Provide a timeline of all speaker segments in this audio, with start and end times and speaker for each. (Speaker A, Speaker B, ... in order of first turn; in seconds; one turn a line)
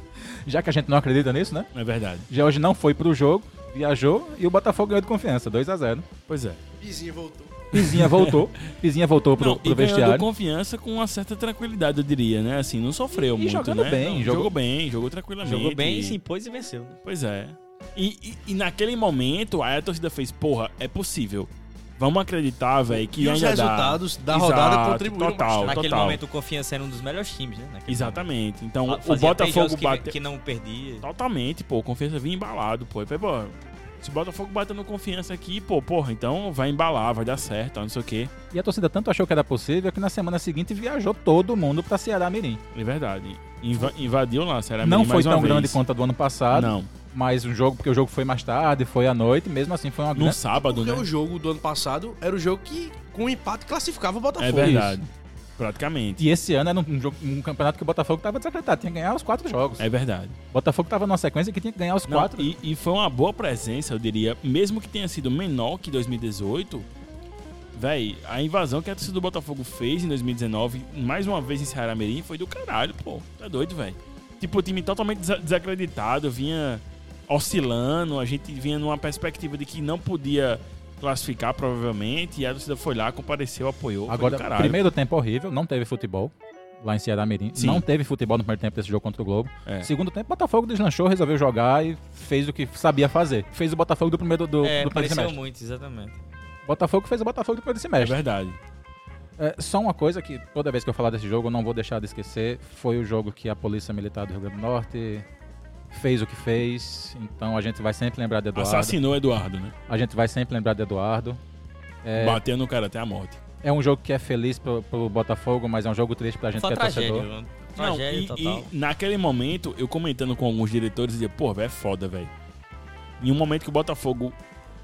Speaker A: 0.4-1.7
Speaker B: 1.7-2.3
Speaker A: 2.3-6.0
Speaker B: 6.3-6.6
Speaker C: 6.8-7.6
Speaker A: 7.7-10.3
Speaker B: 7.7-8.7
Speaker B: 9.4-16.2
Speaker A: 13.1-14.5
Speaker D: 15.4-17.0
Speaker B: 17.0-26.2
Speaker C: 22.9-25.8
Speaker D: 25.6-28.2
Speaker B: 27.9-30.1
Speaker D: 28.9-31.0
Speaker B: 31.0-38.3
Speaker A: 38.5-42.6
Speaker B: 42.7-45.8
Speaker A: 44.8-50.4
Speaker B: 46.5-46.9
Speaker B: 50.1-51.1
Speaker C: 50.5-54.8
Speaker B: 54.4-56.2
Speaker A: 54.5-55.0
Speaker A: 56.2-59.9
Speaker B: 59.8-60.4
Speaker A: 60.5-62.6
Speaker B: 62.1-66.9
Speaker B: 67.7-84.8
Speaker A: 84.1-95.4
Speaker B: 87.5-87.8
Speaker D: 94.6-96.2
Speaker A: 96.7-98.2
Speaker B: 98.0-98.6
Speaker A: 99.4-105.2
Speaker A: 105.9-109.0
Speaker B: 108.5-109.7
Speaker A: 109.9-111.4
Speaker A: 112.0-112.4
Speaker B: 112.2-113.4
Speaker A: 113.6-117.3
Speaker D: 116.6-118.7
Speaker B: 117.8-122.3
Speaker B: 123.2-124.3